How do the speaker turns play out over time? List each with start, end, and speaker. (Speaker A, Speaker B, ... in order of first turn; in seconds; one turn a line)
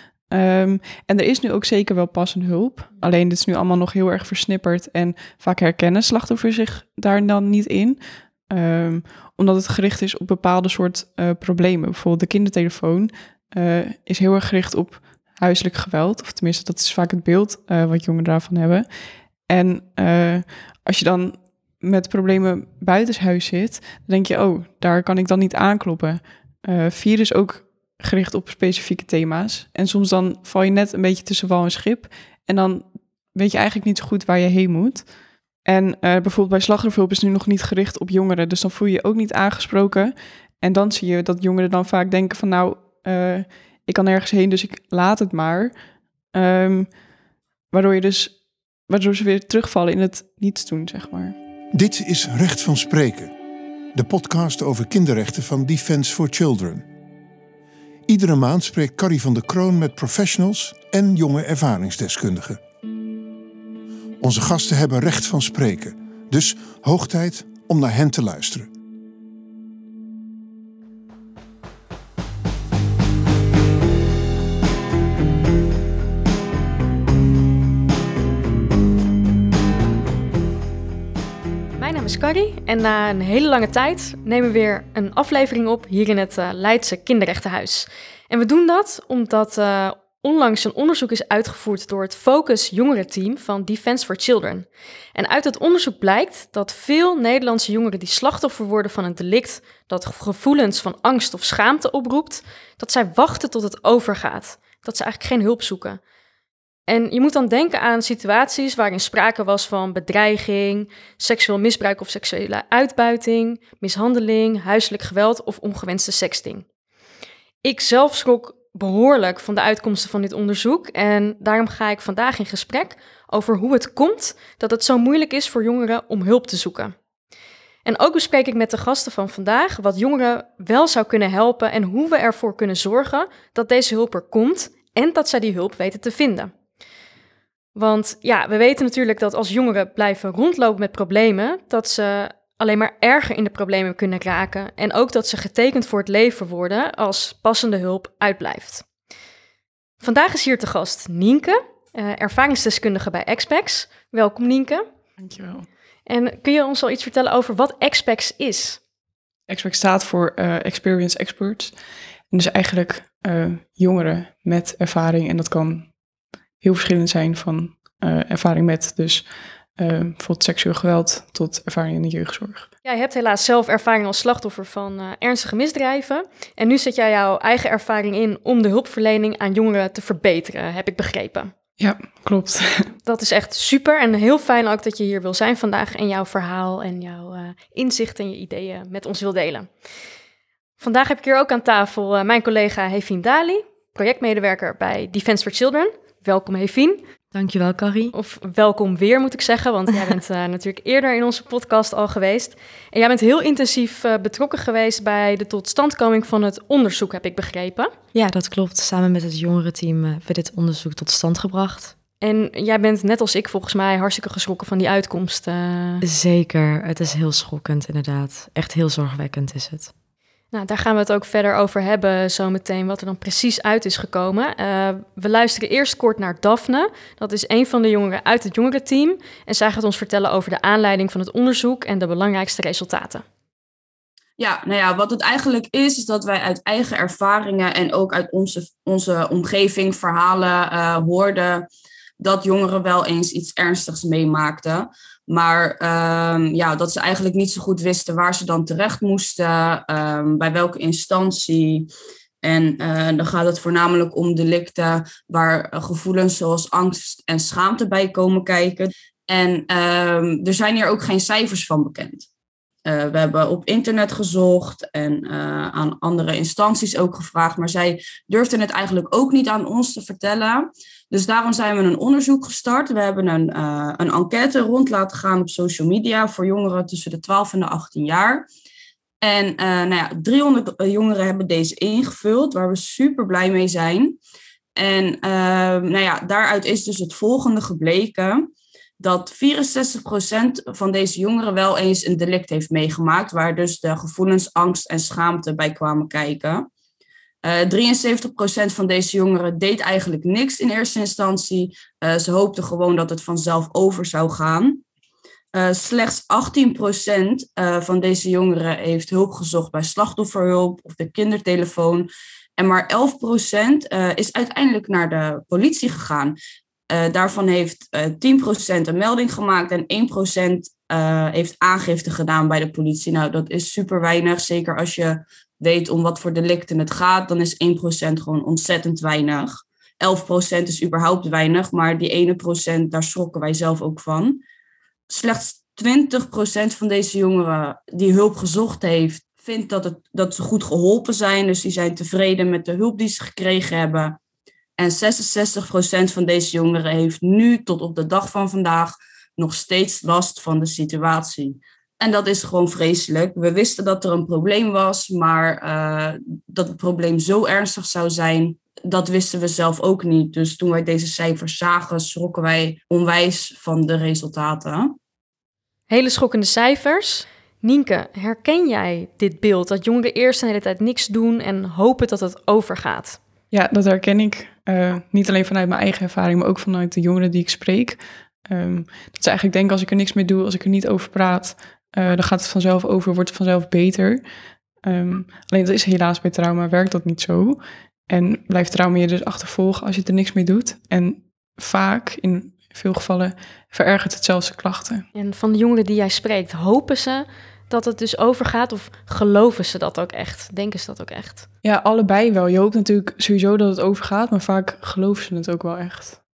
Speaker A: 0.3-18.8
Speaker A: 19.5-35.1
Speaker A: 35.6-45.7
Speaker A: 46.3-46.9
Speaker A: 47.7-48.3
Speaker A: 48.9-51.4
Speaker B: 51.7-53.3
Speaker B: 53.9-56.8
Speaker B: 58.1-62.6
Speaker B: 64.2-68.7
Speaker C: 81.8-106.0
Speaker C: 106.9-116.6
Speaker C: 117.6-126.9
Speaker C: 127.8-136.5
Speaker C: 137.7-148.8
Speaker C: 150.0-154.8
Speaker A: 155.2-155.7
Speaker C: 156.1-158.8
Speaker A: 159.5-161.7
Speaker A: 162.3-165.9
Speaker A: 166.6-169.2
Speaker A: 169.8-172.7
Speaker C: 172.8-181.5
Speaker A: 181.8-182.9
Speaker C: 183.1-189.7
Speaker C: 190.8-197.0
Speaker D: 197.3-198.1
Speaker C: 198.1-207.9
Speaker D: 208.1-211.9
Speaker C: 212.2-216.0
Speaker D: 216.0-219.9
Speaker C: 220.5-233.2
Speaker E: 234.4-241.7
Speaker E: 242.2-251.9
Speaker E: 252.4-262.3
Speaker E: 262.9-278.4
Speaker E: 279.2-284.2
Speaker E: 284.8-296.7
Speaker E: 297.4-304.8
Speaker E: 305.5-316.4
Speaker E: 316.9-334.4
Speaker E: 335.1-344.2
Speaker E: 344.8-364.9
Speaker C: 365.9-373.2
Speaker A: 373.5-384.2
Speaker A: 384.8-395.0
Speaker C: 395.1-401.4
Speaker A: 401.6-406.2